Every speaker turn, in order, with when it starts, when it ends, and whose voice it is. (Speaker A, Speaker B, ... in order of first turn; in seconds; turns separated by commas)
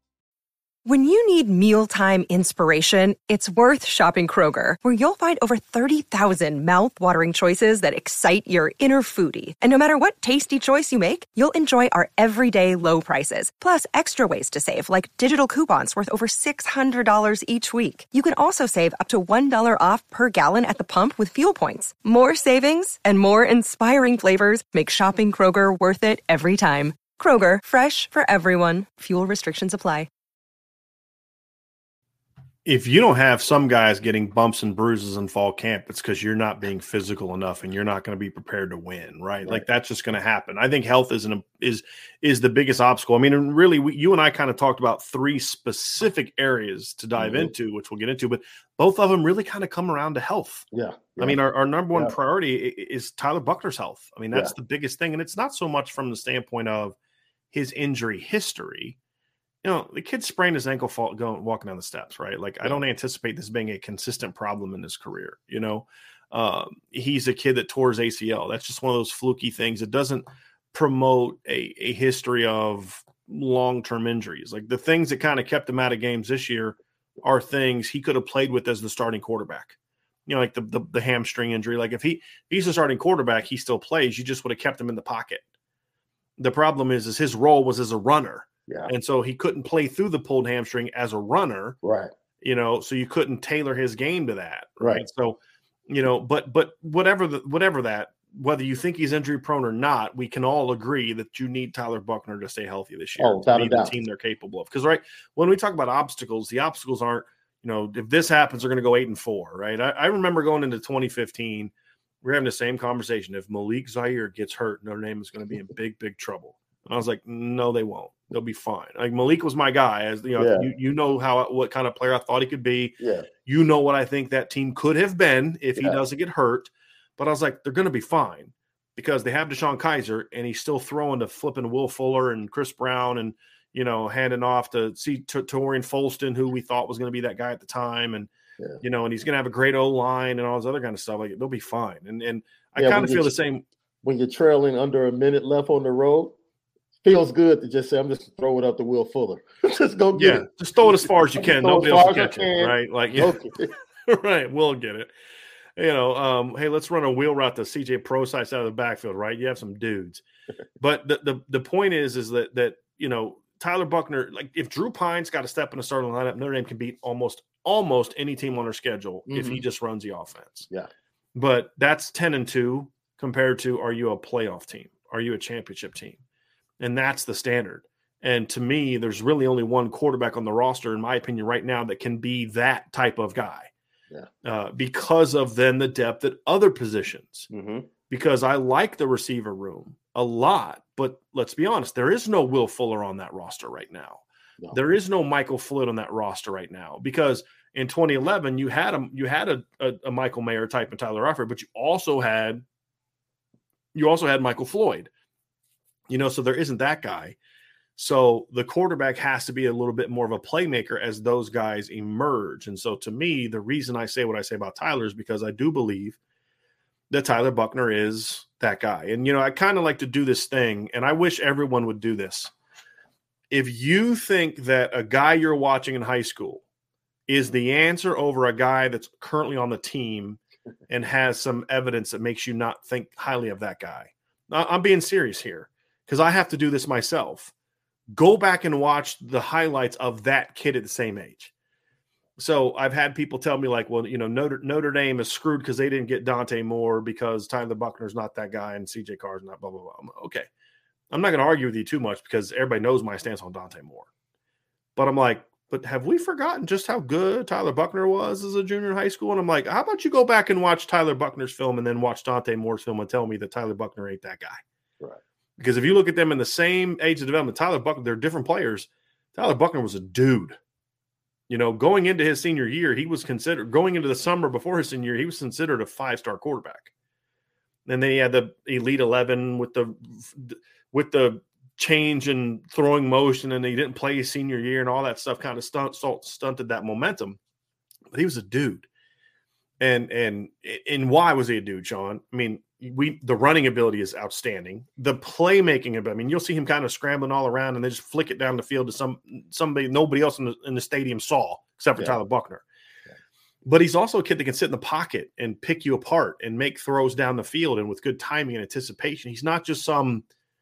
Speaker A: 0.8-30.1, Speaker B: 32.6-50.6, Speaker C: 47.2-47.5, Speaker C: 50.7-51.4, Speaker B: 51.2-57.0, Speaker B: 57.5-59.0, Speaker B: 59.6-85.4, Speaker B: 86.4-91.8, Speaker C: 91.8-92.1, Speaker B: 92.4-138.3, Speaker C: 94.8-95.0, Speaker C: 103.2-104.0, Speaker C: 120.4-120.7, Speaker C: 123.0-123.3, Speaker B: 138.8-143.6, Speaker C: 142.8-143.3, Speaker C: 144.0-146.3, Speaker C: 147.0-153.7, Speaker B: 150.1-153.4, Speaker B: 154.1-155.1, Speaker B: 155.8-160.2, Speaker B: 160.8-170.7, Speaker C: 169.3-169.6, Speaker B: 171.3-176.2, Speaker B: 176.8-183.7, Speaker B: 184.4-187.5, Speaker C: 187.5-187.9, Speaker B: 188.1-202.6, Speaker B: 203.9-205.1, Speaker B: 206.1-207.3, Speaker B: 208.0-216.2, Speaker B: 217.1-222.5, Speaker B: 223.5-226.6, Speaker B: 227.3-237.5, Speaker B: 238.1-241.5, Speaker B: 242.4-250.5, Speaker B: 251.1-254.1, Speaker B: 254.9-264.6, Speaker B: 265.6-270.6, Speaker B: 271.5-276.9, Speaker B: 277.9-287.4, Speaker B: 288.1-288.9, Speaker B: 289.8-302.6, Speaker B: 303.6-310.2